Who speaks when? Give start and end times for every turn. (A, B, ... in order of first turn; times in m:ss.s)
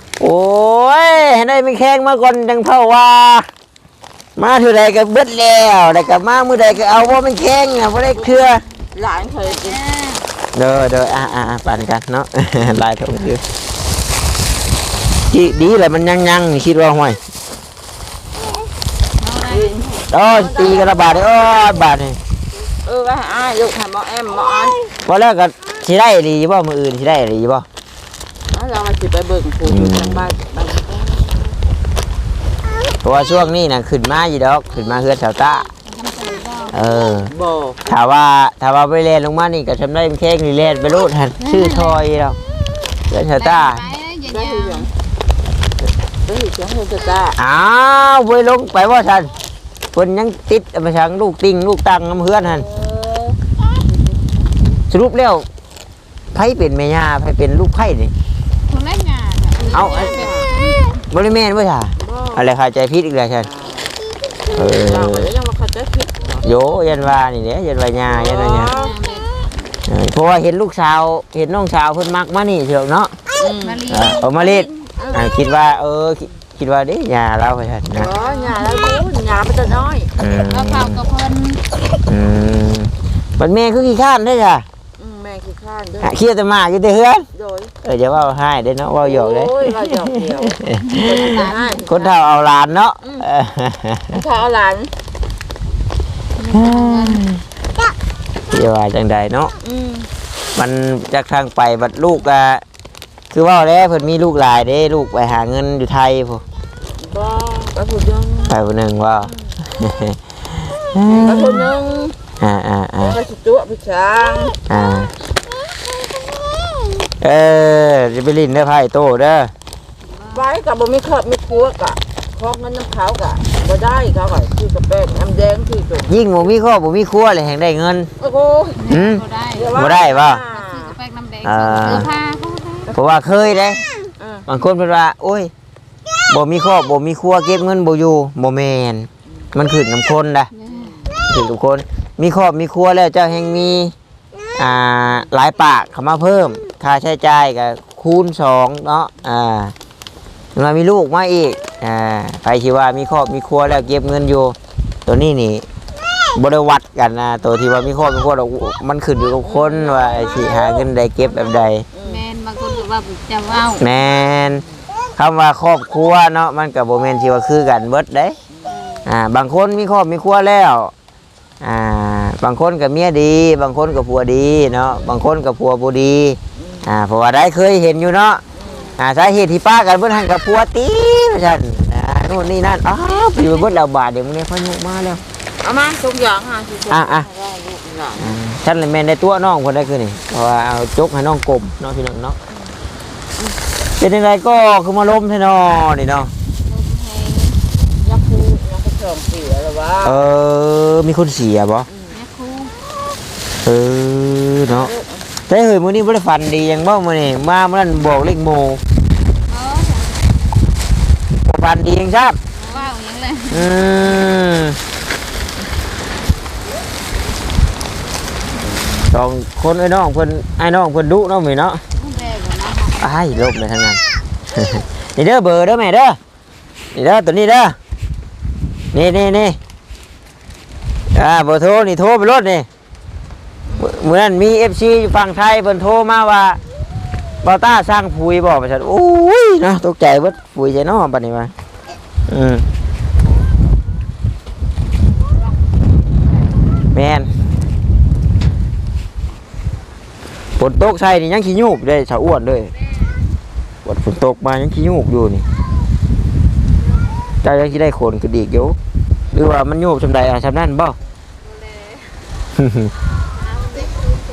0:00.2-0:03.5 A
0:04.4-0:08.6 A
0:08.9-0:09.8 B
0:09.5-0:10.2 C
0:10.6-0:13.4 A
0:15.3-0:17.2 A
0:19.2-0:20.0 C
0:19.5-0:21.2 B
0:20.1-0:22.2 A
0:22.8-0:24.9 B
0:25.0-0:27.6 A
0:28.5-0:31.6 B
0:29.7-0:30.2 A
0:33.0-0:35.6 A
0:35.8-0:36.8 C
0:36.7-0:37.3 A
0:37.3-0:37.8 B
0:37.9-0:42.4 A
0:41.4-0:42.0 C
0:43.1-0:43.9 A
0:43.4-0:44.9 C
0:44.2-0:44.9 B
0:46.2-0:47.4 B
0:47.4-0:49.3 A
0:49.9-0:52.6 A
0:52.5-0:53.4 B
0:54.9-0:55.5 A
0:56.3-0:58.1 A
0:58.7-1:01.0 C
0:59.6-1:00.5 B
0:59.7-1:00.2 A
1:01.1-1:03.5 A
1:02.0-1:02.4 B
1:03.4-1:06.4 B
1:04.5-1:05.3 A
1:06.4-1:08.8 A
1:08.0-1:09.0 B
1:08.6-1:09.3 C
1:09.9-1:13.2 A
1:13.4-1:15.3 B
1:13.6-1:14.3 C
1:13.9-1:18.1 A
1:17.9-1:20.1 B
1:18.1-1:18.7 C
1:20.2-1:21.0 A
1:20.4-1:21.6 C
1:22.1-1:24.6 A
1:25.0-1:26.1 B
1:26.0-1:27.3 A
1:27.3-1:27.7 B
1:27.8-1:31.3 A
1:29.0-1:32.1 B
1:30.7-1:32.0 C
1:31.8-1:34.2 A
1:34.1-1:34.9 B
1:36.4-1:37.2 C
1:36.5-1:37.4 A
1:38.5-1:39.5 A
1:39.6-1:40.1 B
1:40.6-1:42.6 A
1:43.3-1:46.4 A
1:47.0-1:48.6 B
1:48.5-1:51.7 A
1:49.2-1:49.6 B
1:51.1-1:52.2 B
1:52.4-1:53.2 A
1:53.0-1:54.6 B
1:54.7-1:55.1 A
1:57.2-1:59.5 A
2:00.0-2:00.4 C
2:00.3-2:06.1 B
2:06.1-2:08.1 A
2:08.2-2:08.8 B
2:08.8-2:09.8 C
2:08.9-2:10.4 A
2:09.5-2:11.0 B
2:10.5-2:12.9 C
2:11.4-2:12.1 A
2:12.9-2:13.8 A
2:14.2-2:14.5 B
2:14.5-2:15.5 A
2:16.3-2:20.5 A
2:20.5-2:21.0 C
2:20.7-2:21.2 B
2:21.3-2:23.9 A
2:24.6-2:29.7 A
2:30.6-2:35.7 A
2:36.3-2:41.9 A
2:39.4-2:42.2 B
2:42.0-2:43.9 C
2:43.8-2:44.6 A
2:45.2-2:48.4 A
2:48.7-2:49.0 C
2:49.0-2:50.9 A
2:51.6-2:58.4 A
2:56.6-2:56.9 B
2:58.5-2:58.9 B
2:58.7-2:58.9 C
2:59.0-3:05.2 A
3:05.6-3:08.4 B
3:06.9-3:07.3 A
3:08.2-3:12.4 A
3:14.0-3:16.3 A
3:16.6-3:17.6 C
3:18.0-3:20.2 B
3:20.0-3:21.9 A
3:21.9-3:22.2 B
3:22.1-3:22.7 C
3:23.6-3:24.9 A
3:24.7-3:25.3 B
3:25.5-3:28.8 A
3:29.5-3:30.3 C
3:31.4-3:32.4 A
3:32.5-3:33.7 C
3:33.5-3:34.8 A
3:39.1-3:41.8 A
3:41.9-3:43.2 C
3:42.9-3:44.0 A
3:44.5-3:46.2 A
3:46.9-3:47.8 A
3:48.9-3:49.6 A
3:51.1-3:52.7 A
3:53.7-3:54.0 B
3:53.8-3:56.6 A
3:57.4-4:01.5 A
4:02.3-4:02.6 A
4:06.9-4:07.3 A
4:10.6-4:12.7 A
4:13.8-4:15.5 A
4:17.4-4:18.8 A
4:19.3-4:21.0 A
4:21.5-4:22.2 C
4:22.5-4:22.9 A
4:23.6-4:24.0 C